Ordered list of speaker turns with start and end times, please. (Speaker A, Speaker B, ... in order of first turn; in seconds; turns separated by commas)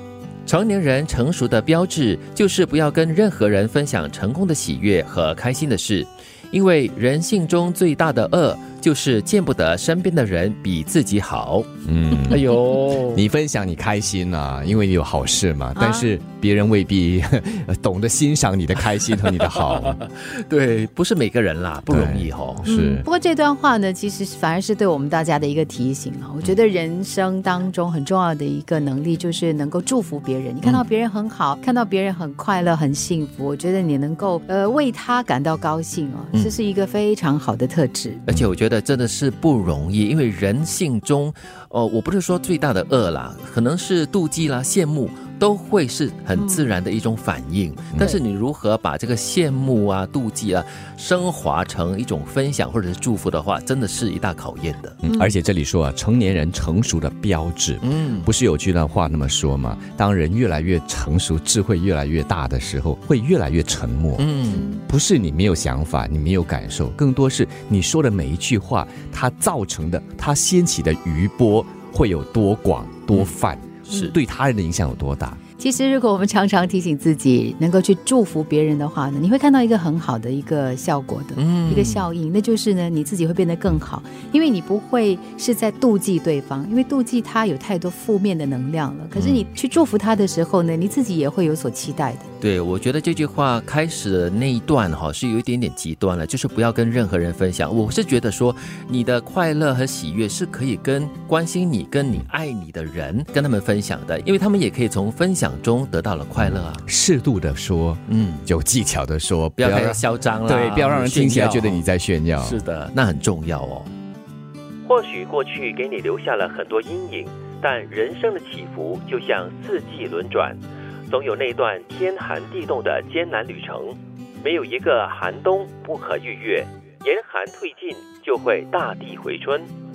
Speaker A: 0.5-11.7, Speaker B: 11.8-20.0, Speaker A: 12.3-13.2, Speaker C: 15.7-16.1, Speaker A: 19.7-22.6, Speaker B: 21.9-23.1, Speaker C: 22.6-38.2, Speaker A: 38.3-55.0, Speaker C: 46.3-46.7, Speaker B: 55.0-75.4, Speaker C: 55.0-55.4, Speaker A: 57.8-58.3, Speaker A: 64.2-64.7, Speaker C: 64.5-64.8, Speaker A: 73.9-74.2, Speaker C: 75.6-92.3, Speaker A: 81.3-82.1, Speaker A: 89.1-89.5, Speaker A: 92.4-106.8, Speaker B: 106.8-112.6, Speaker A: 108.1-108.5, Speaker A: 109.6-111.8, Speaker A: 112.4-113.9, Speaker A: 114.8-129.7